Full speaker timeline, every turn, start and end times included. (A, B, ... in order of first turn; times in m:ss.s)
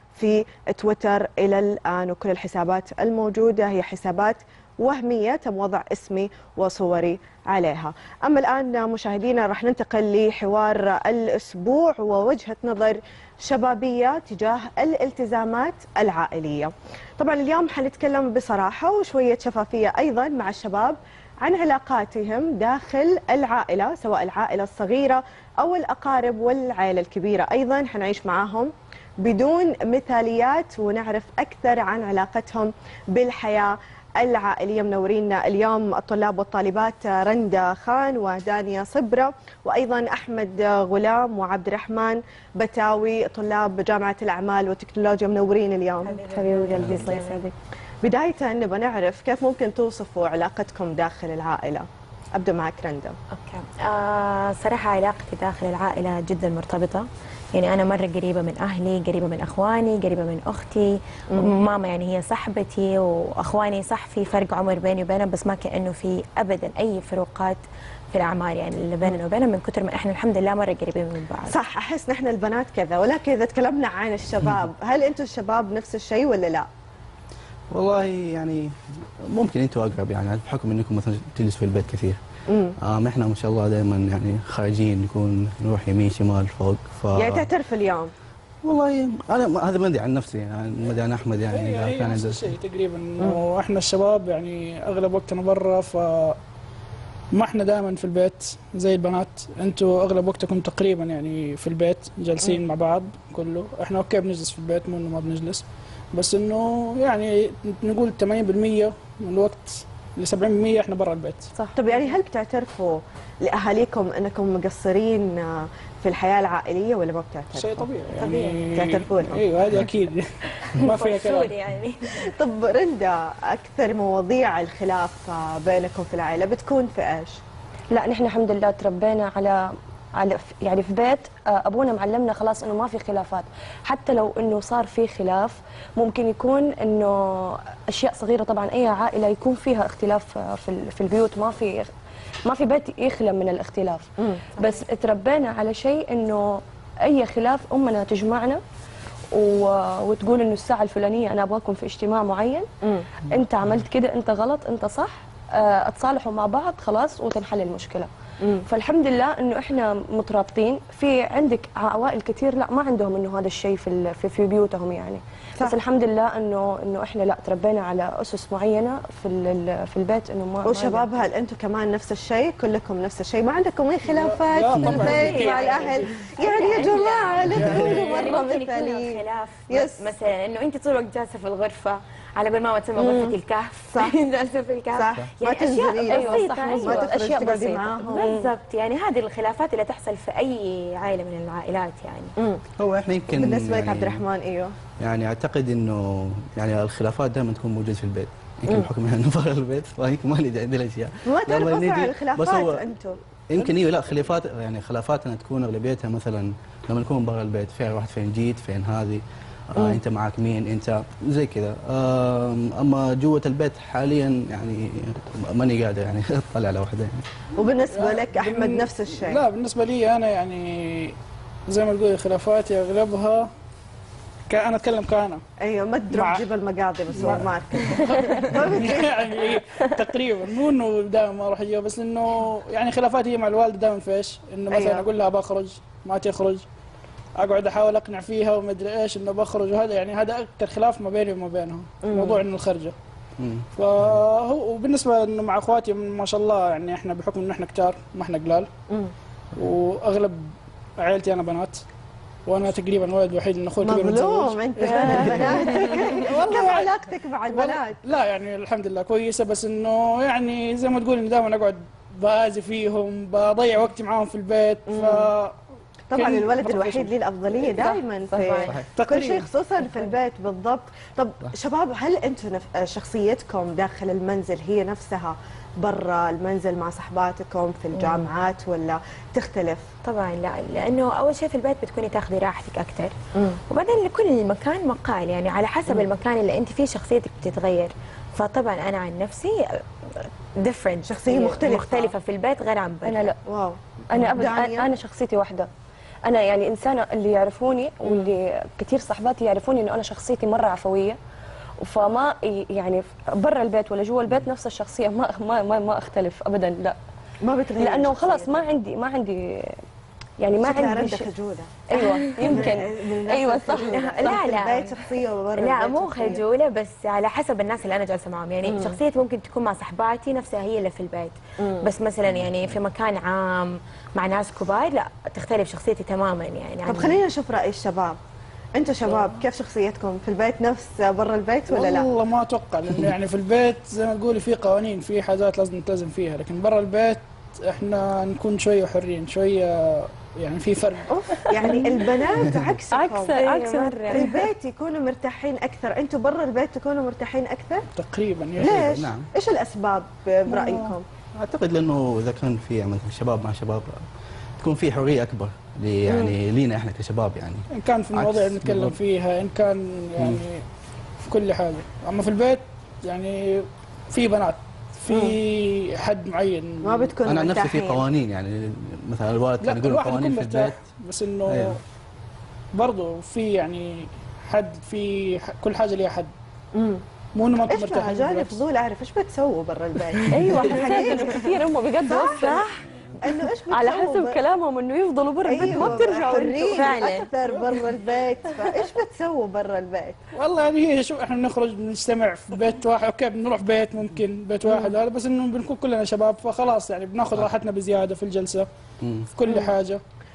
0:00.2-0:53.2 A
0:46.0-0:47.4 B
0:53.3-1:11.5 B
1:11.5-1:16.7 A
1:17.7-1:18.8 C
1:19.3-1:22.2 C
1:22.5-1:22.8 A
1:22.8-1:27.5 C
1:27.1-1:28.1 A
1:28.6-1:32.5 C
1:31.5-1:36.4 D
1:37.3-1:51.5 D
1:51.8-1:57.8 A
1:57.5-2:01.5 D
1:58.2-1:58.7 B
1:58.7-1:59.4 A
2:00.8-2:02.0 B
2:02.2-2:07.4 A
2:07.9-2:21.9 E
2:22.5-2:28.6 E
2:24.2-2:24.4 A
2:29.3-2:32.7 E
2:33.3-2:38.1 E
2:38.7-2:51.1 E
2:50.6-3:00.1 A
2:54.0-2:58.4 D
2:54.8-3:07.5 B
2:56.6-2:57.5 E
2:57.6-2:58.0 C
3:03.0-3:03.4 A
3:05.0-3:08.4 A
3:06.1-3:08.5 E
3:08.1-3:12.3 B
3:12.8-3:14.2 C
3:13.3-3:14.7 A
3:15.0-3:22.8 C
3:21.3-3:23.2 A
3:23.5-3:37.3 C
3:37.6-3:39.4 A
3:37.9-3:41.2 D
3:41.7-3:43.5 D
3:44.5-3:45.4 D
3:45.6-3:49.2 A
3:46.1-3:46.5 D
3:47.1-3:56.7 D
3:54.7-3:55.1 A
3:57.4-4:03.0 D
4:02.0-4:02.4 A
4:03.4-4:03.6 C
4:03.8-4:08.7 D
4:09.6-4:11.8 D
4:12.5-4:25.6 D
4:13.8-4:18.0 A
4:24.9-4:25.3 A
4:26.1-4:39.9 A
4:26.1-4:27.1 D
4:27.8-4:28.7 E
4:28.4-4:28.8 B
4:28.9-4:29.5 D
4:40.0-4:43.1 B
4:43.7-4:53.3 B
4:51.0-4:52.2 A
4:53.0-4:53.4 E
4:53.5-4:54.9 A
4:54.1-4:55.7 E
4:56.3-5:01.2 E
5:01.8-5:07.0 E
5:07.4-5:08.6 A
5:07.8-5:09.8 E
5:10.4-5:11.3 E
5:10.6-5:16.4 A
5:11.9-5:14.4 E
5:12.0-5:12.7 B
5:13.8-5:15.0 B
5:15.6-5:27.2 B
5:18.7-5:19.0 A
5:21.6-5:21.9 A
5:26.9-5:28.2 A
5:28.8-5:32.1 A
5:31.7-5:41.1 D
5:41.1-5:47.9 A
5:41.6-5:44.5 E
5:43.7-5:44.3 B
5:47.9-5:49.0 D
5:48.6-5:51.0 A
5:48.6-5:49.3 C
5:51.4-5:54.0 C
5:54.6-5:59.0 C
5:56.1-5:56.3 A
5:57.7-6:00.6 D
6:01.2-6:07.1 D
6:05.1-6:05.4 A
6:06.8-6:08.0 A
6:07.3-6:10.8 C
6:09.6-6:11.8 D
6:11.5-6:11.8 C
6:12.7-6:16.3 D
6:16.8-6:17.0 A
6:17.4-6:18.6 D
6:17.7-6:21.5 A
6:20.3-6:22.7 E
6:22.1-6:24.4 A
6:23.7-6:26.8 E
6:25.5-6:30.2 A
6:26.7-6:27.3 B
6:30.4-6:38.7 D
6:39.0-6:39.3 C
6:39.3-6:40.0 D